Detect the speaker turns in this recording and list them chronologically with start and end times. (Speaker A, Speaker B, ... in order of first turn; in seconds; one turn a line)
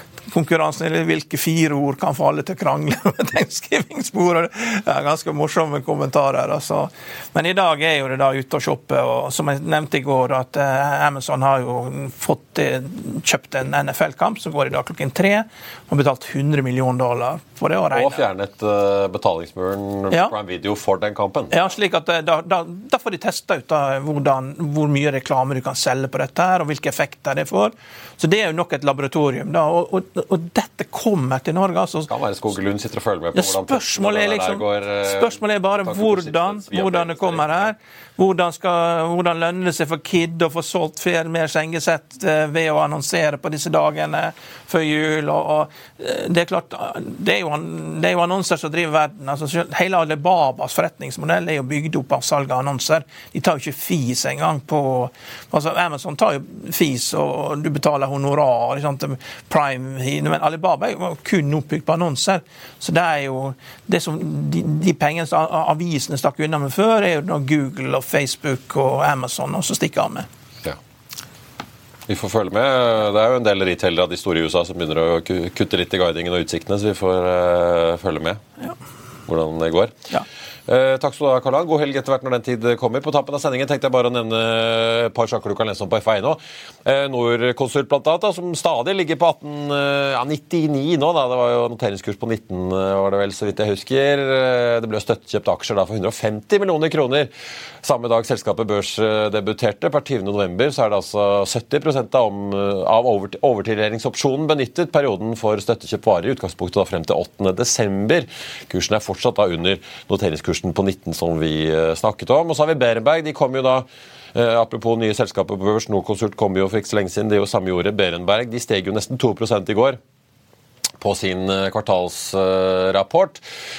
Speaker A: 0.3-18.2
Speaker B: 17.9-21.5
Speaker A: 21.5-32.1
Speaker B: 32.1-37.7
Speaker A: 33.3-70.3
Speaker B: 72.1-78.4
Speaker B: 79.3-80.0
Speaker B: 80.7-97.3
Speaker B: 97.8-120.0
Speaker B: 121.0-123.4